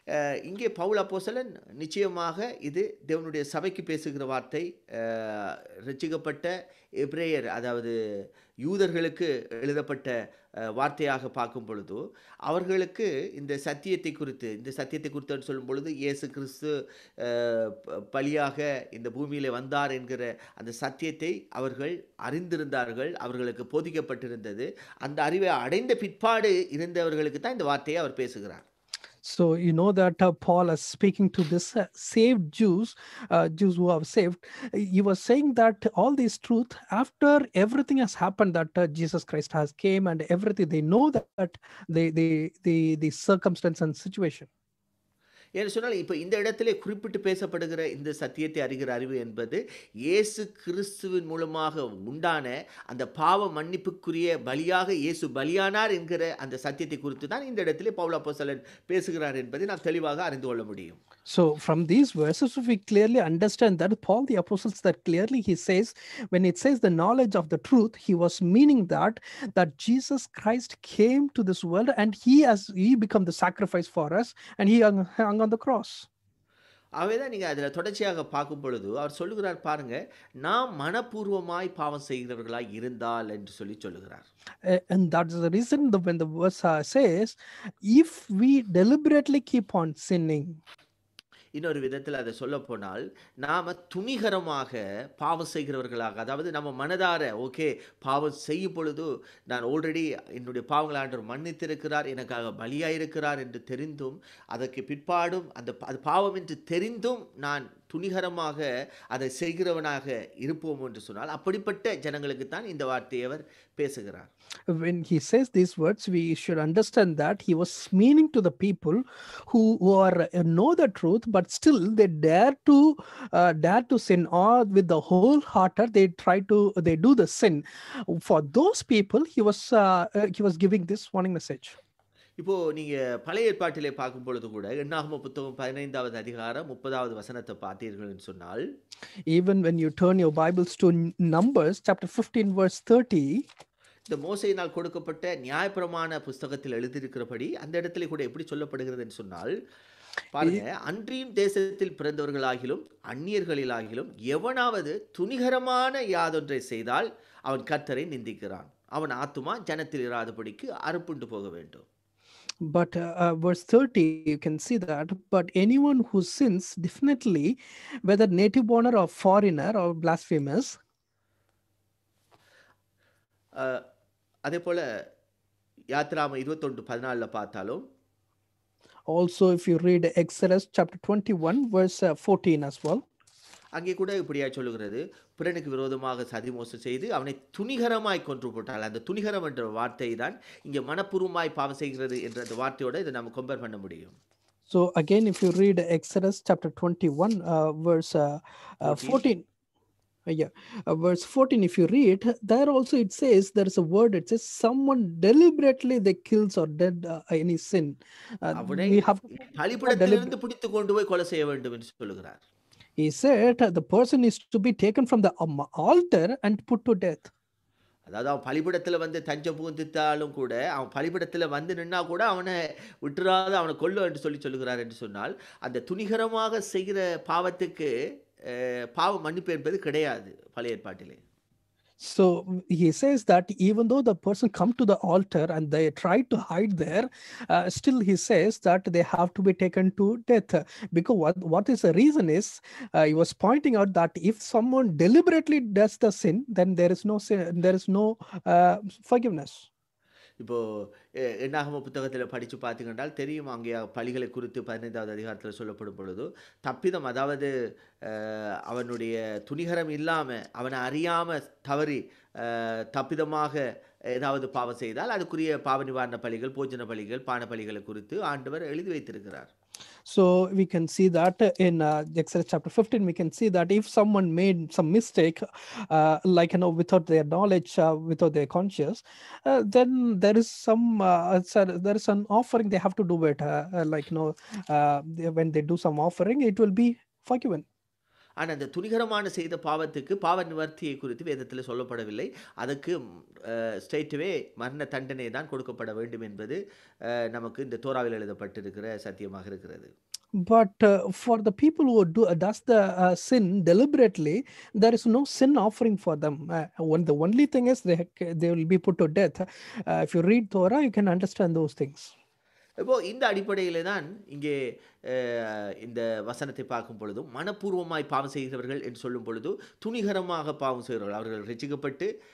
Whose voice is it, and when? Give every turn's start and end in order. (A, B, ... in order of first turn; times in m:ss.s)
0:00.2-0:07.9 A
0:08.6-0:10.1 A
0:10.7-0:28.6 A
0:29.2-0:44.5 B
0:45.6-1:01.0 A
1:01.3-1:16.1 B
1:17.0-1:24.2 A
1:24.6-1:30.6 B
1:31.6-1:54.3 A
1:54.7-2:11.8 B
2:12.4-2:18.6 A
2:19.3-2:23.4 B
2:24.1-2:29.5 A
2:30.3-2:41.8 A
2:42.6-2:50.8 B
2:53.6-2:53.8 A
2:54.4-2:54.8 A
2:55.9-2:57.8 A
2:59.1-3:03.0 B
3:03.8-3:14.2 A
3:14.7-3:19.4 B
3:18.8-3:19.2 A
3:20.2-3:30.3 B
3:28.5-3:32.4 A
3:33.0-3:37.3 B
3:38.1-3:47.9 A
3:48.4-3:51.2 A
3:52.0-4:09.7 B
4:10.4-4:17.5 A
4:18.0-4:23.6 A
4:24.2-4:29.5 A
4:30.0-4:47.6 B
4:48.4-4:59.9 A
5:00.4-5:12.1 B
5:12.8-5:14.5 A
5:15.1-5:22.1 A